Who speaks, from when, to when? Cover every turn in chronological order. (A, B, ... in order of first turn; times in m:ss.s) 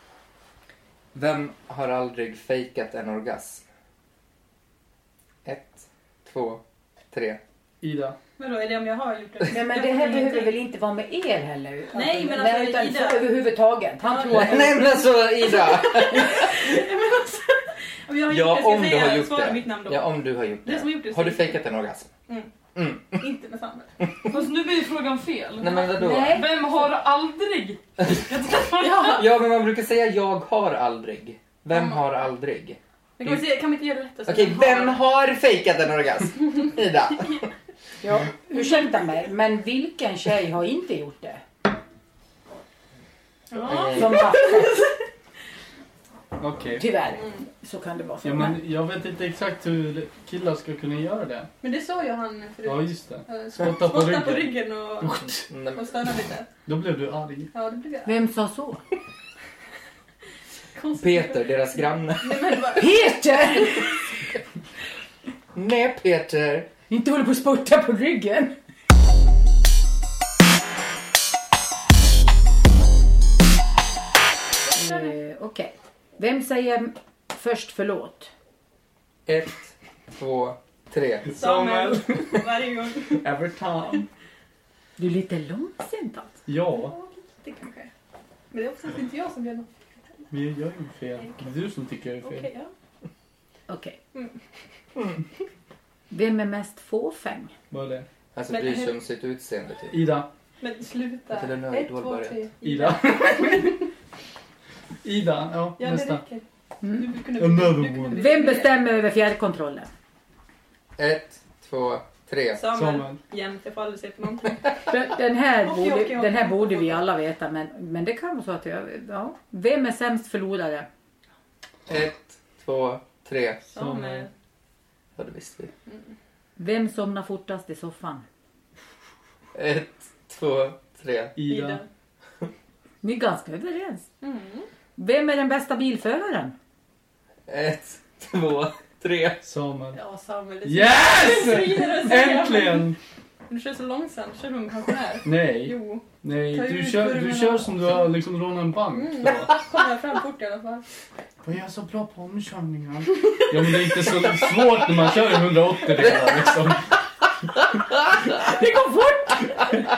0:01.1-0:03.6 A
0:05.4-0:07.4 A
0:07.8-0:08.2 B
0:08.4-0:10.6 C
0:09.5-0:14.8 D
0:11.9-0:13.3 C
0:14.0-0:21.6 C
0:14.3-0:16.6 A
0:18.3-0:22.1 A
0:22.7-0:23.2 A
0:23.2-0:23.9 C
0:24.3-0:28.8 E
0:25.6-0:26.4 A
0:25.9-0:26.8 D
0:28.3-0:29.3 C
0:29.0-0:33.4 A
0:31.7-0:32.0 C
0:33.2-0:35.0 C
0:34.3-0:37.4 A
0:38.0-0:41.4 D
0:43.5-0:45.0 C
0:43.6-0:44.4 A
0:43.9-0:44.8 D
0:46.4-0:46.9 B
0:46.8-0:48.6 D
0:47.2-0:47.4 C
0:48.2-0:51.5 B
0:51.6-0:56.5 C
0:52.6-0:55.5 B
0:55.5-0:55.8 A
0:56.6-0:57.5 B
0:57.5-0:58.2 C
0:58.0-0:58.8 D
1:00.8-1:03.8 C
1:01.0-1:02.7 A
1:02.8-1:04.0 D
1:05.5-1:06.7 A
1:06.9-1:08.6 D
1:14.6-1:15.2 C
1:14.7-1:18.3 D
1:19.2-1:21.2 A
1:21.2-1:22.5 B
1:21.4-1:23.3 C
1:23.0-1:24.0 B
1:25.0-1:26.4 D
1:26.5-1:26.9 B
1:26.7-1:27.9 C
1:28.5-1:29.7 C
1:30.3-1:32.5 B
1:31.2-1:31.4 C
1:32.2-1:32.7 C
1:33.7-1:34.0 D
1:36.1-1:37.5 D
1:37.7-1:38.0 B
1:38.3-1:40.0 A
1:38.5-1:38.9 C
1:39.9-1:40.3 B
1:40.6-1:43.9 C
1:41.3-1:42.4 A
1:42.6-1:43.8 B
1:45.0-1:46.2 B
1:45.8-1:48.7 C
1:46.8-1:47.1 D
1:47.4-1:48.2 B
1:48.1-1:49.9 D
1:51.0-1:52.6 A
1:52.5-1:54.9 C
1:52.7-1:53.2 B
1:54.9-2:00.9 D
1:55.6-1:57.0 C
2:01.9-2:03.6 A
2:03.7-2:04.3 C
2:03.7-2:04.3 B
2:05.2-2:05.7 A
2:06.6-2:08.2 D
2:09.5-2:11.3 A
2:11.4-2:11.8 B
2:11.5-2:11.9 C
2:13.0-2:14.1 D
2:14.2-2:14.7 C
2:15.0-2:16.5 D
2:17.5-2:19.4 A
2:19.4-2:20.0 B
2:19.9-2:22.9 C
2:20.6-2:23.0 B
2:23.5-2:28.0 C
2:25.2-2:29.6 B
2:28.9-2:30.8 C
2:31.4-2:36.9 B
2:36.0-2:36.7 A
2:37.9-2:38.2 A
2:38.4-2:39.4 D